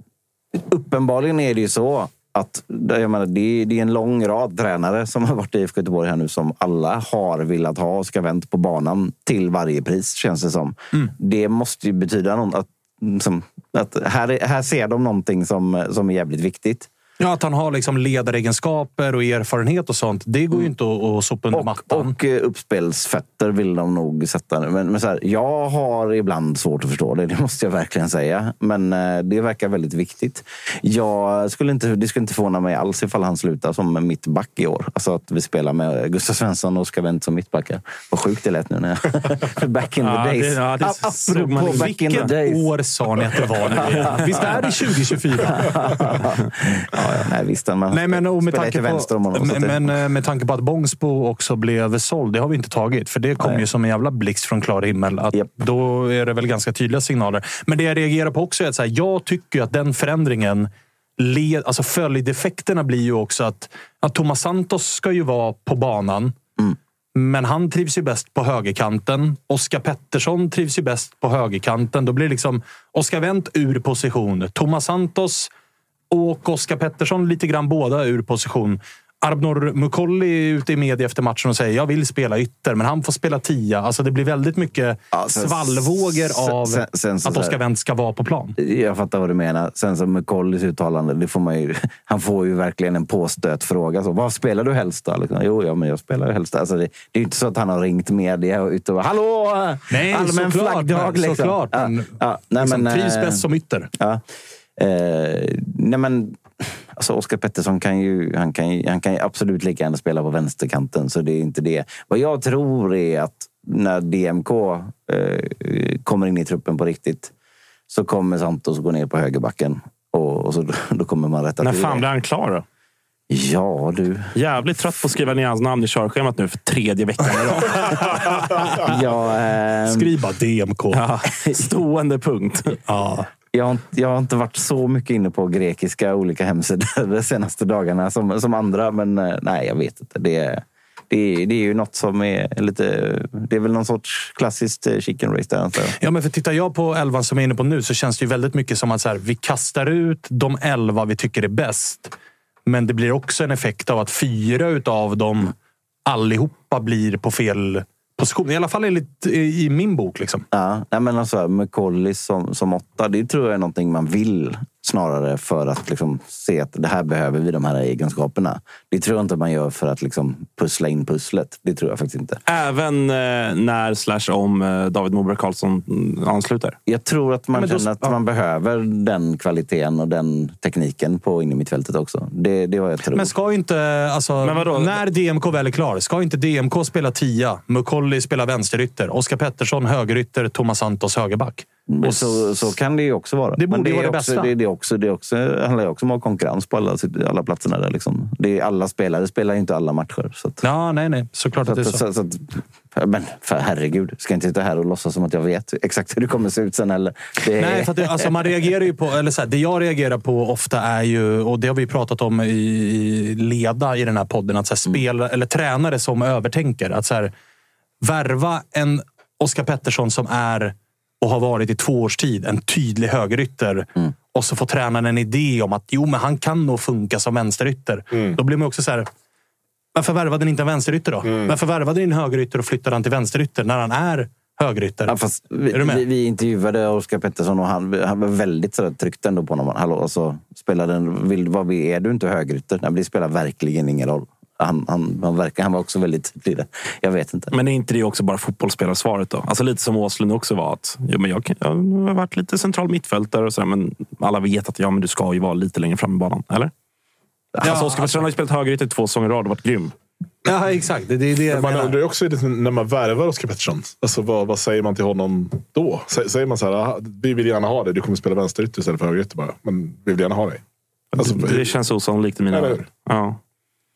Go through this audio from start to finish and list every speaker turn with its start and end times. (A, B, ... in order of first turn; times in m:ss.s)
0:00.5-0:16.9 A
0:17.2-0:22.1 B
0:21.5-0:42.7 A
0:40.0-0:42.3 C
0:41.6-0:46.1 B
0:43.8-0:44.4 A
0:45.4-0:49.8 A
0:47.9-1:06.4 B
1:07.1-1:15.5 B
1:16.1-1:28.5 B
1:25.1-1:27.6 A
1:28.6-1:43.4 A
1:39.9-1:43.9 B
1:43.9-1:44.2 A
1:44.8-1:57.3 A
1:57.9-2:02.0 A
2:01.6-2:02.6 C
2:03.3-2:04.3 A
2:04.3-2:08.4 C
2:08.8-2:10.1 A
2:09.9-2:11.0 B
2:10.9-2:12.8 C
2:12.9-2:13.3 B
2:13.5-2:26.0 A
2:26.0-2:32.1 B
2:32.6-2:35.5 B
2:36.1-2:40.4 B
2:40.5-2:52.4 A
2:52.5-2:56.8 C
2:56.8-3:03.3 A
2:57.5-2:58.2 B
3:03.1-3:12.7 B
3:04.4-3:05.0 C
3:11.9-3:20.6 A
3:13.6-3:14.5 B
3:20.6-3:22.0 B
3:21.6-3:28.3 A
3:27.6-3:37.3 B
3:38.0-3:49.1 B
3:48.1-3:48.4 D
3:49.9-3:55.2 B
3:51.2-3:51.5 D
3:55.1-4:07.5 A
3:55.7-3:56.0 B
4:07.5-4:16.7 C
4:17.6-4:19.9 C
4:17.6-4:18.2 B
4:20.4-4:22.0 B
4:21.5-4:30.6 D
4:31.1-4:33.4 C
4:31.2-4:31.7 D
4:32.5-4:32.8 D